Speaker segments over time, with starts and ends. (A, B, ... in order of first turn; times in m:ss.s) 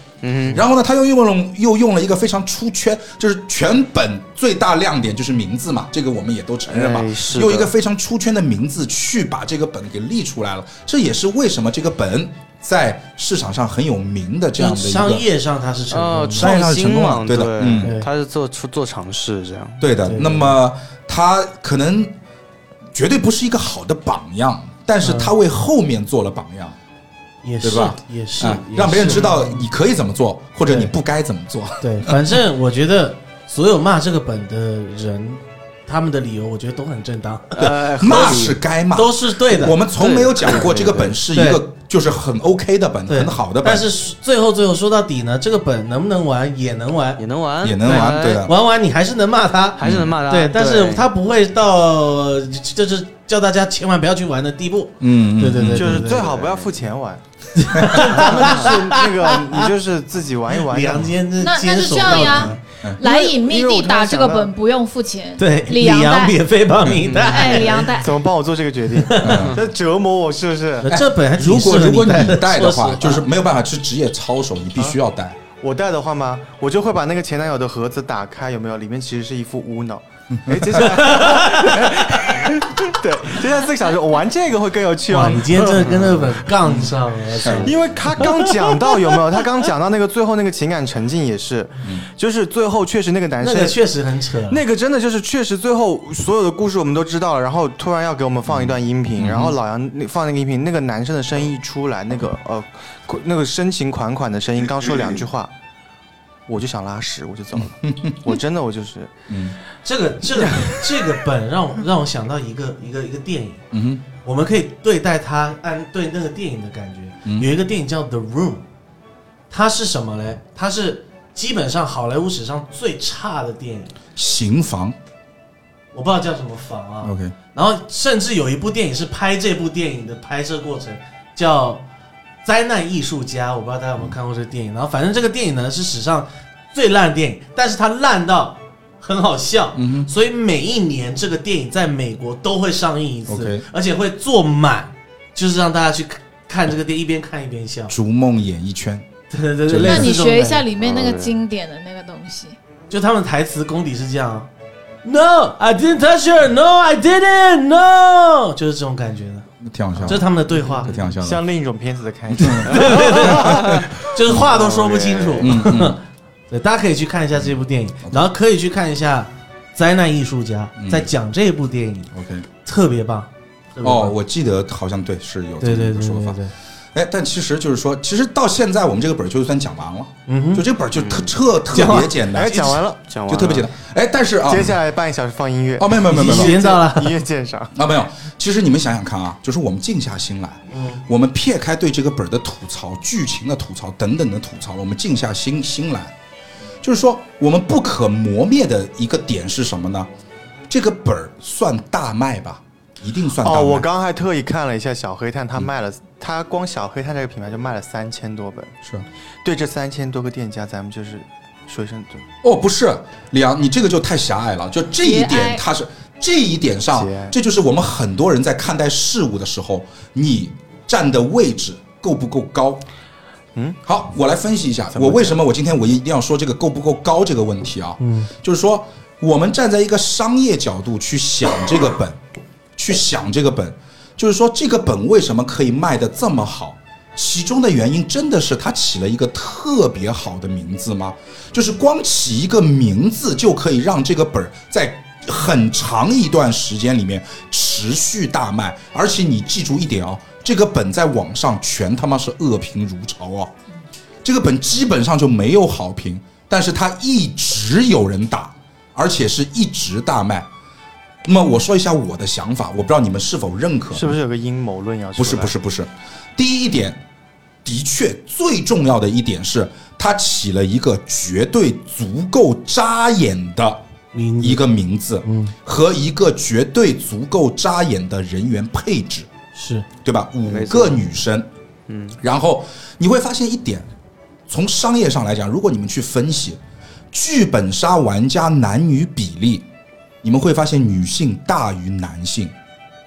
0:00.2-0:00.6 A
0:00.5-0:15.2 B
0:06.7-0:07.7 A
0:14.6-0:16.5 C
0:15.9-0:19.8 A
0:16.4-0:17.9 B
0:17.8-0:18.1 C
0:19.8-0:22.1 B
0:20.0-0:20.6 C
0:22.9-0:26.8 B
0:25.0-0:25.3 C
0:27.4-0:29.6 C
0:27.6-0:32.2 B
0:31.8-0:37.7 C
0:37.6-0:38.6 A
0:37.6-0:43.8 B
0:38.9-0:39.8 C
0:40.0-0:41.2 A
0:41.3-0:41.6 C
0:43.1-0:47.2 C
0:47.2-0:48.5 A
0:47.6-0:48.5 B
0:47.8-0:56.3 C
0:49.8-0:51.1 A
0:49.8-0:50.1 B
0:55.0-0:56.1 B
0:55.7-0:57.2 D
0:56.1-0:56.9 A
0:57.5-0:59.7 C
0:57.7-0:58.1 B
0:57.8-1:01.2 D
0:58.2-0:58.6 A
1:00.7-1:02.5 C
1:01.4-1:06.4 E
1:02.2-1:02.6 A
1:03.0-1:04.5 D
1:05.4-1:07.9 C
1:07.0-1:07.6 A
1:07.2-1:08.2 E
1:07.8-1:10.9 D
1:09.0-1:09.5 C
1:09.2-1:09.6 B
1:10.8-1:13.3 C
1:10.9-1:15.4 B
1:15.6-1:26.1 D
1:20.4-1:20.9 B
1:20.8-1:22.4 C
1:25.1-1:29.0 C
1:26.6-1:26.9 B
1:27.4-1:27.7 B
1:27.6-1:33.8 D
1:33.4-1:34.6 C
1:34.5-1:45.5 D
1:38.5-1:39.6 B
1:46.5-1:49.1 D
1:47.8-1:48.4 B
1:49.3-1:49.6 B
1:49.8-1:53.6 C
1:53.7-1:54.0 B
1:54.2-1:58.6 C
1:59.5-2:03.9 C
2:04.2-2:05.0 B
2:05.9-2:11.8 C
2:07.0-2:07.3 B
2:12.4-2:27.9 C
2:19.8-2:20.1 B
2:23.3-2:23.6 B
2:27.9-2:29.0 B
2:29.3-2:30.7 C
2:29.7-2:30.1 B
2:29.8-2:32.6 E
2:30.8-2:31.4 A
2:32.9-2:34.5 C
2:35.0-2:39.5 C
2:39.6-2:40.2 B
2:40.0-2:40.9 C
2:40.8-2:41.4 B
2:41.1-2:43.6 D
2:42.3-2:43.9 B
2:42.5-2:52.1 C
2:44.3-2:45.5 A
2:45.4-2:46.0 B
2:48.0-2:48.3 B
2:50.8-2:51.1 B
2:52.1-2:52.4 B
2:52.6-2:54.1 C
2:53.8-2:56.4 B
2:55.6-2:56.5 C
2:56.9-3:04.8 B
3:00.3-3:00.6 C
3:00.9-3:01.3 A
3:01.7-3:02.8 C
3:02.3-3:03.0 D
3:03.1-3:03.7 A
3:04.4-3:07.7 D
3:05.8-3:06.6 B
3:06.0-3:07.2 C
3:07.7-3:16.1 B
3:10.7-3:11.0 C
3:16.8-3:20.1 B
3:20.7-3:23.9 B
3:23.4-3:28.7 D
3:29.4-3:32.2 D
3:32.4-3:42.8 B
3:35.0-3:35.6 E
3:36.9-3:37.3 D
3:43.8-3:52.2 B
3:44.9-3:45.4 D
3:48.0-3:48.3 C
3:52.8-4:13.5 B
4:14.2-4:20.5 B
4:21.2-4:24.1 B
4:23.9-4:25.5 D
4:25.2-4:27.0 B
4:27.6-4:33.8 B
4:34.1-4:35.5 C
4:34.4-4:39.3 B
4:39.5-4:39.8 C
4:40.0-4:41.5 B
4:40.5-4:41.0 A
4:41.9-4:42.2 A
4:42.2-4:43.8 B
4:44.5-4:46.6 B
4:47.1-4:49.6 B
4:50.2-4:52.5 B